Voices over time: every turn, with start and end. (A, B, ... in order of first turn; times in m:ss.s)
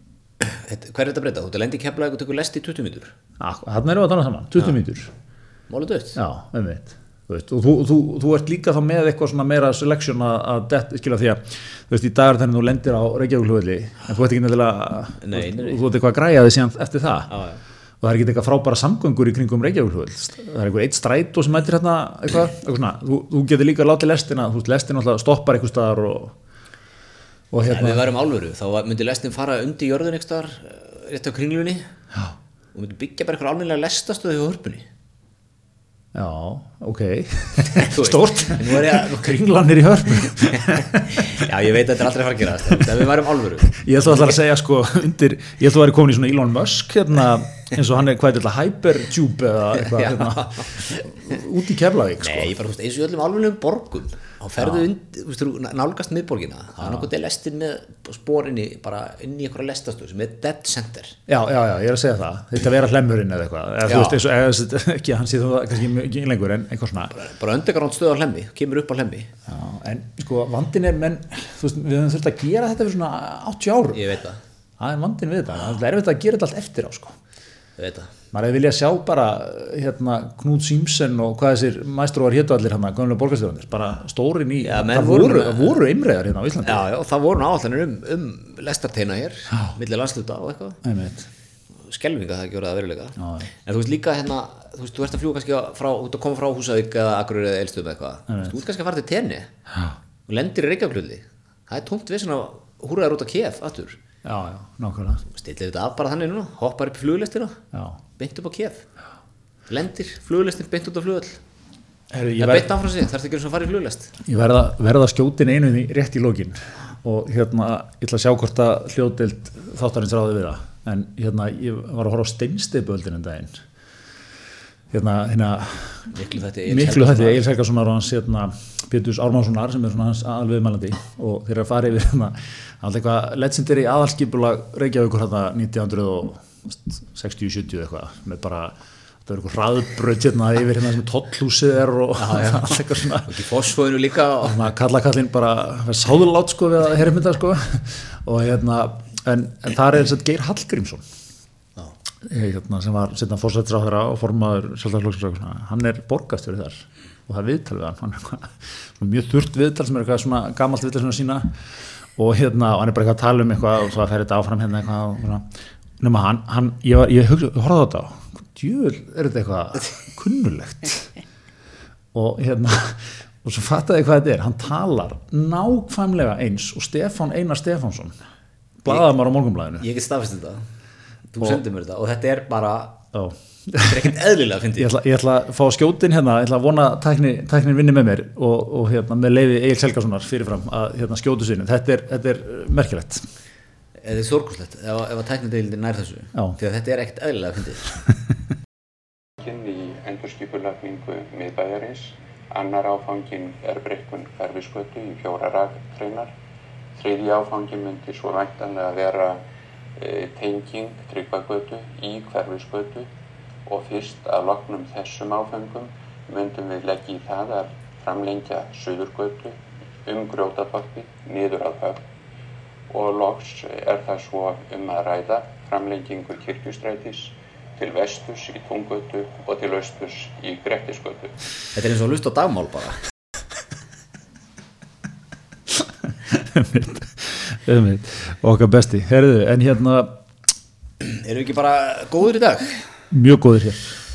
0:00.4-0:03.1 A
0:03.4-0:05.1 B
0:05.7-0:06.2 A
0:06.2-0:17.3 B
0:15.2-0:15.8 A
0:17.3-0:17.6 A
0:18.0-0:26.3 B
0:27.5-0:28.1 B
0:27.7-0:31.9 A
0:32.7-0:34.9 A
0:36.1-0:41.5 B
0:37.6-0:39.4 A
0:40.5-0:44.3 A
0:43.7-0:52.5 B
0:49.8-0:51.1 A
0:52.2-1:01.2 A
0:54.6-0:54.9 B
0:56.8-0:57.1 B
1:01.3-1:07.1 B
1:03.8-1:04.2 A
1:07.1-1:09.3 A
1:09.5-1:14.0 B
1:13.9-1:14.4 A
1:14.8-1:17.1 B
1:17.8-1:18.1 A
1:18.3-1:26.9 B
1:24.6-1:25.8 A
1:26.6-1:30.8 A
1:30.8-1:31.3 B
1:31.9-1:39.5 A
1:33.2-1:33.5 B
1:38.3-1:38.6 B
1:40.3-1:44.0 A
1:44.2-1:45.2 B
1:45.3-1:47.6 A
1:47.7-1:48.0 B
1:48.2-1:48.8 A
1:49.7-1:51.4 A
1:52.1-1:52.7 B
1:52.4-1:54.1 A
1:54.2-2:03.6 B
2:04.9-2:06.1 B
2:06.1-2:07.4 A
2:06.7-2:18.8 B
2:19.3-2:23.3 B
2:22.2-2:24.7 A
2:24.4-2:31.0 B
2:32.2-2:41.5 B
2:42.2-2:45.5 B
2:46.0-2:51.1 B
2:52.1-2:58.2 B
2:58.8-2:59.8 B
2:59.8-3:00.6 A
3:01.3-3:03.0 A
3:03.1-3:04.1 B
3:03.8-3:04.9 A
3:04.8-3:13.2 B
3:14.0-3:18.0 A
3:19.4-3:26.3 C
3:27.0-3:29.4 C
3:30.0-3:33.1 C
3:33.7-3:42.0 C
3:42.9-3:51.4 C
3:51.8-3:53.0 A
3:55.8-4:00.2 B
4:01.0-4:02.8 A
4:03.1-4:04.0 B